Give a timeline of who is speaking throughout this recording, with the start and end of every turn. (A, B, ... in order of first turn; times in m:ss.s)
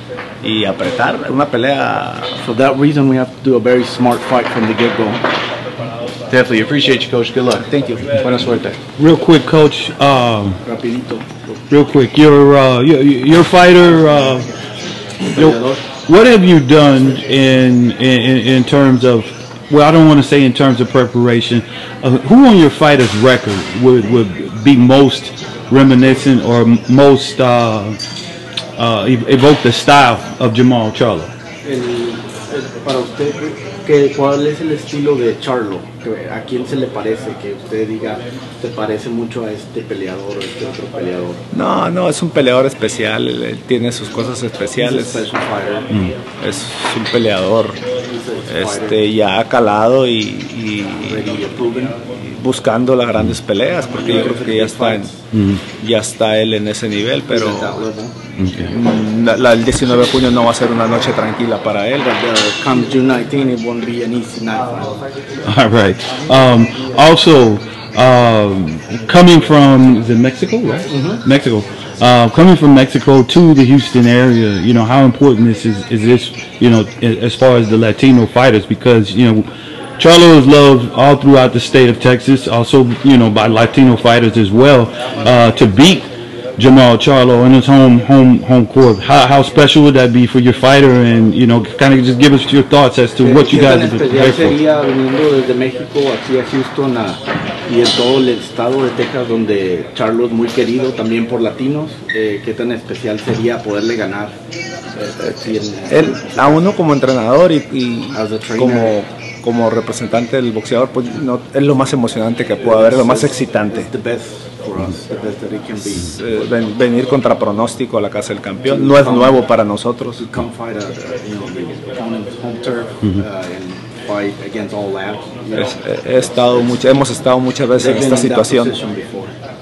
0:00.4-0:02.4 A
0:02.4-0:05.2 B
0:06.3-0:07.6 C
0:07.6-0:08.1 A
0:08.2-0:08.8 C
0:08.2-0:08.7 B
0:09.0-0:10.6 D
0:10.6-0:11.6 B
0:11.7-0:14.5 D
0:15.3-0:15.8 B
0:15.4-0:28.0 D
0:28.8-0:31.3 D
0:31.6-0:41.4 B
0:41.5-0:45.3 A
0:44.7-0:45.9 B
0:46.4-0:47.8 A
0:48.0-0:49.1 B
0:48.5-0:51.3 A
0:51.0-0:52.0 B
0:52.1-0:55.1 A
0:53.9-0:55.2 B
0:55.3-0:55.6 D
0:55.8-0:57.8 A
0:57.3-0:58.2 B
0:58.4-0:58.7 D
0:58.6-1:02.1 A
1:02.0-1:05.0 B
1:05.4-1:19.5 D
1:10.9-1:11.2 B
1:20.0-1:34.6 D
1:33.2-1:44.3 B
1:45.0-1:46.6 B
1:45.2-1:53.9 A
1:48.1-1:49.0 B
1:52.6-1:56.5 B
1:55.8-2:00.2 A
1:58.6-1:59.4 B
2:00.2-2:06.8 B
2:05.6-2:08.7 A
2:07.8-2:09.3 B